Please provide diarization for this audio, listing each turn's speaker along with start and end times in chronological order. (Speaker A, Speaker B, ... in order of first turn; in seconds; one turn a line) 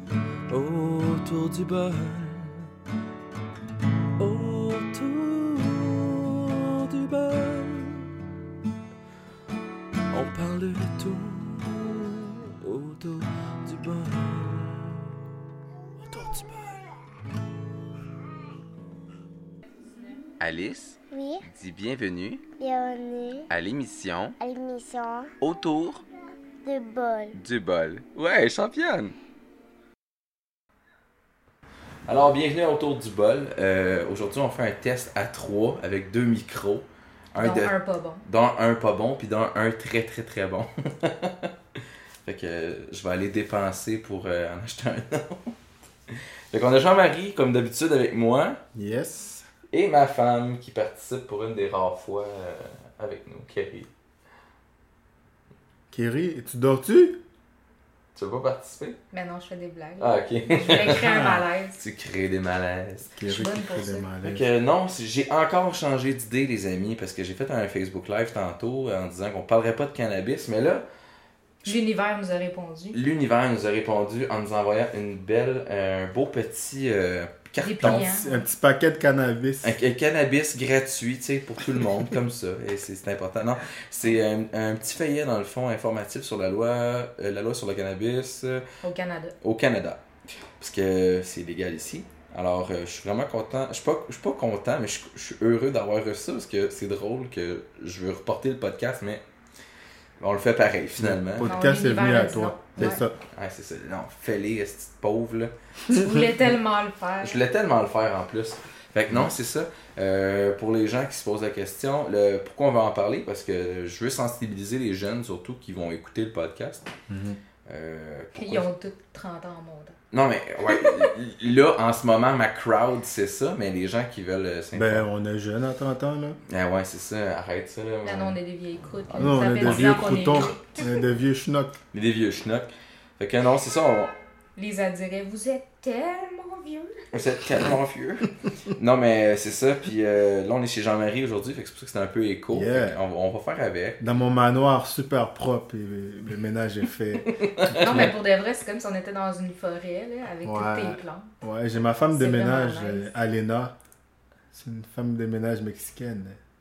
Speaker A: 0.5-2.7
Speaker A: 4.2-8.1
Speaker A: 10.1-15.1
Speaker A: 16.0-16.8
Speaker B: 20.4-22.4
Speaker C: 21.1-21.4
Speaker C: 22.6-23.5
Speaker B: 23.5-24.4
Speaker C: 24.4-25.3
Speaker B: 25.4-26.0
Speaker C: 26.6-27.4
Speaker B: 27.3-29.1
Speaker B: 32.1-41.5
Speaker D: 37.4-38.2
Speaker B: 42.2-45.6
Speaker B: 46.1-48.6
Speaker E: 48.7-49.5
Speaker B: 49.7-53.9
Speaker E: 55.9-57.2
Speaker B: 58.1-59.0
Speaker D: 59.1-61.8
Speaker B: 60.0-61.0
Speaker E: 60.9-61.4
Speaker B: 61.8-63.1
Speaker E: 63.2-64.4
Speaker D: 63.3-64.0
Speaker B: 64.2-70.8
Speaker D: 71.6-73.0
Speaker B: 72.9-78.1
Speaker D: 77.6-78.4
Speaker E: 77.8-79.8
Speaker B: 79.6-88.7
Speaker D: 88.8-89.3
Speaker B: 89.4-90.0
Speaker B: 90.6-99.2
Speaker B: 100.2-101.5
Speaker E: 101.0-103.2
Speaker D: 101.4-103.0
Speaker B: 103.3-105.5
Speaker D: 105.9-107.4
Speaker B: 107.2-116.9
Speaker E: 117.1-117.4
Speaker B: 117.7-118.7
Speaker D: 118.3-120.0
Speaker B: 120.1-125.0
Speaker E: 124.7-126.4
Speaker B: 126.5-128.4
Speaker D: 128.0-130.8
Speaker B: 129.1-130.6
Speaker E: 129.2-131.8
Speaker B: 131.9-134.1
Speaker D: 134.6-137.0
Speaker B: 137.1-144.0
Speaker E: 142.5-142.9
Speaker E: 144.0-147.3
Speaker B: 147.3-148.1
Speaker D: 147.7-151.4
Speaker E: 147.9-148.1
Speaker E: 150.4-153.8
Speaker D: 152.1-153.1
Speaker E: 154.5-156.4